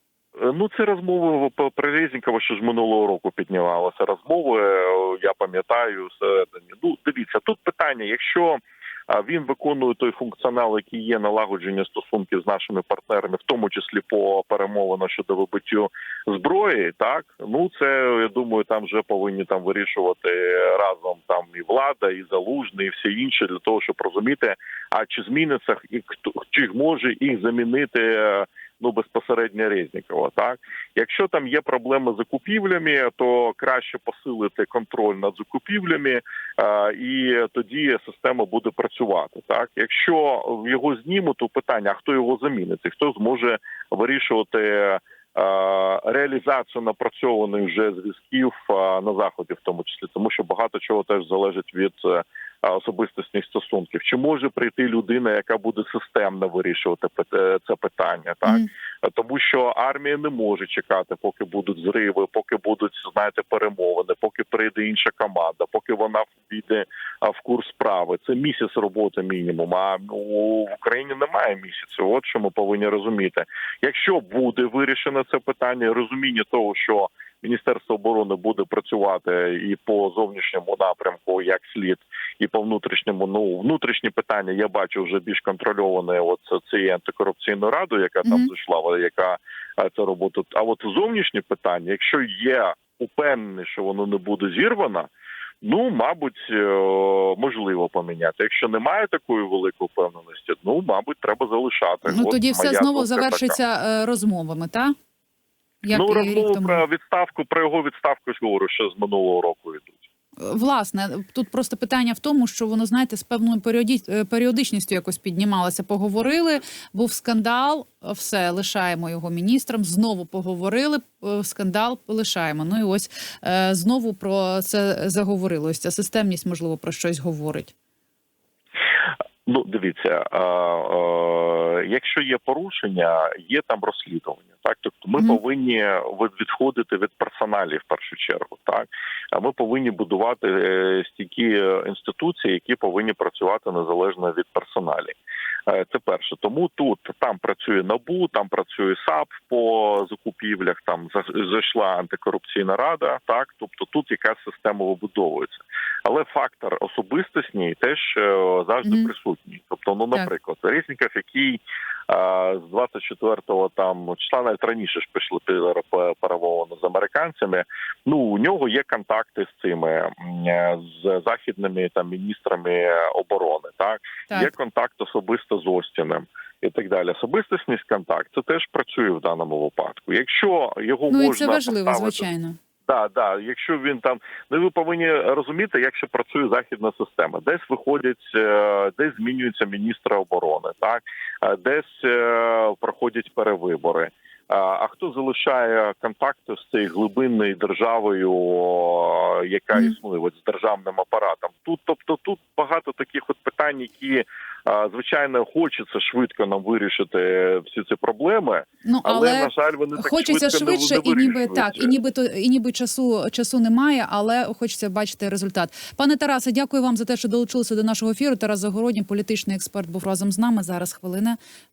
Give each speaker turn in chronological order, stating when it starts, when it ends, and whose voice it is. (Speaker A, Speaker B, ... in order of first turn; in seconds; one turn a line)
Speaker A: 0.4-95.1
Speaker B: 88.2-88.5
Speaker A: 95.6-103.6
Speaker B: 102.0-104.9
Speaker B: 105.8-106.8
Speaker A: 105.9-110.0
Speaker B: 110.4-127.7
Speaker A: 129.4-145.2
Speaker A: 145.7-182.2
Speaker B: 158.8-159.1
Speaker B: 181.1-182.6
Speaker A: 182.9-211.9
Speaker B: 208.8-221.4